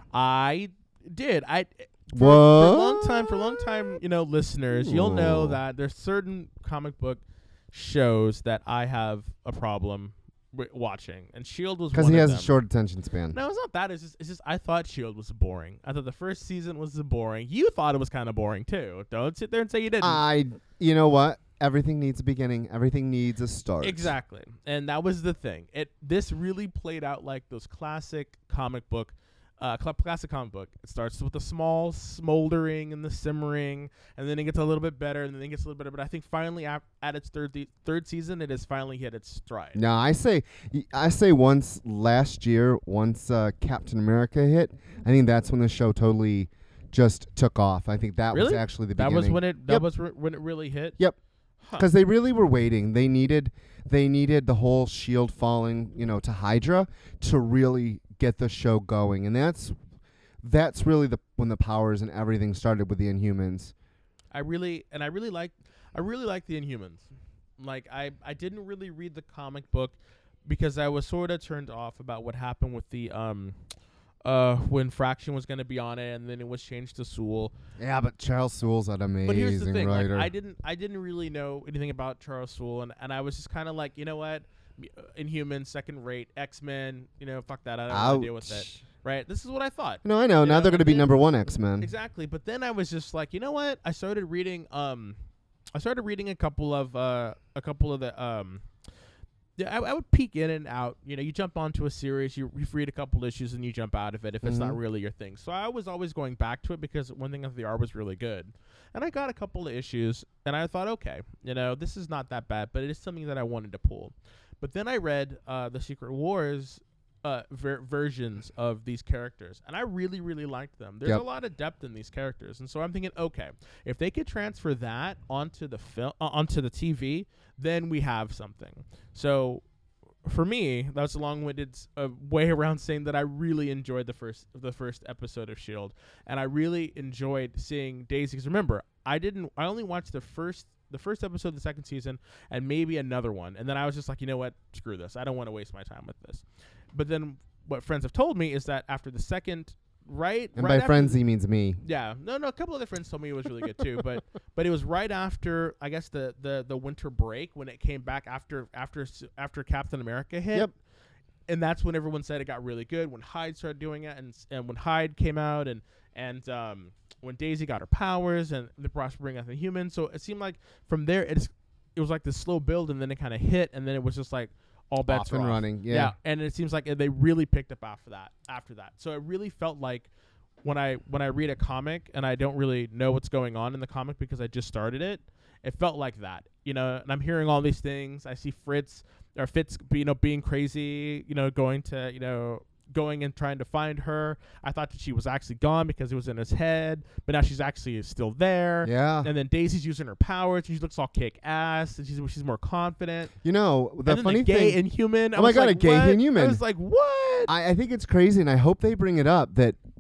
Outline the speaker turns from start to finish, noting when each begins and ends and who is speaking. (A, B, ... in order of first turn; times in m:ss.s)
0:00.1-0:12.5 A
0:02.1-0:04.0 B
0:04.7-0:05.6 B
0:11.9-0:13.4 B
0:13.3-0:20.2 A
0:20.0-0:24.1 B
0:23.8-0:39.8 A
0:39.8-0:49.9 B
0:48.3-0:51.0 A
0:51.6-0:51.9 A
0:51.8-0:59.8 B
1:00.4-1:03.7 B
1:04.3-1:07.1 A
1:07.6-1:09.9 A
1:10.4-1:13.6 A
1:14.2-1:17.5 A
1:17.8-1:20.3 B
1:19.2-1:31.1 A
1:27.9-1:28.8 B
1:30.0-1:31.9 B
1:31.8-1:35.2 A
1:35.7-1:38.6 A
1:39.6-2:09.6 A
1:44.4-1:44.8 B
2:10.2-2:31.2 A
2:30.6-2:31.8 B
2:31.8-2:40.7 A
2:41.5-3:00.1 A
2:55.1-2:56.1 B
3:00.6-3:23.3 A
3:18.8-3:19.3 B
3:23.4-3:24.8 B
3:24.0-3:27.5 A
3:25.3-3:26.6 B
3:27.5-3:29.8 B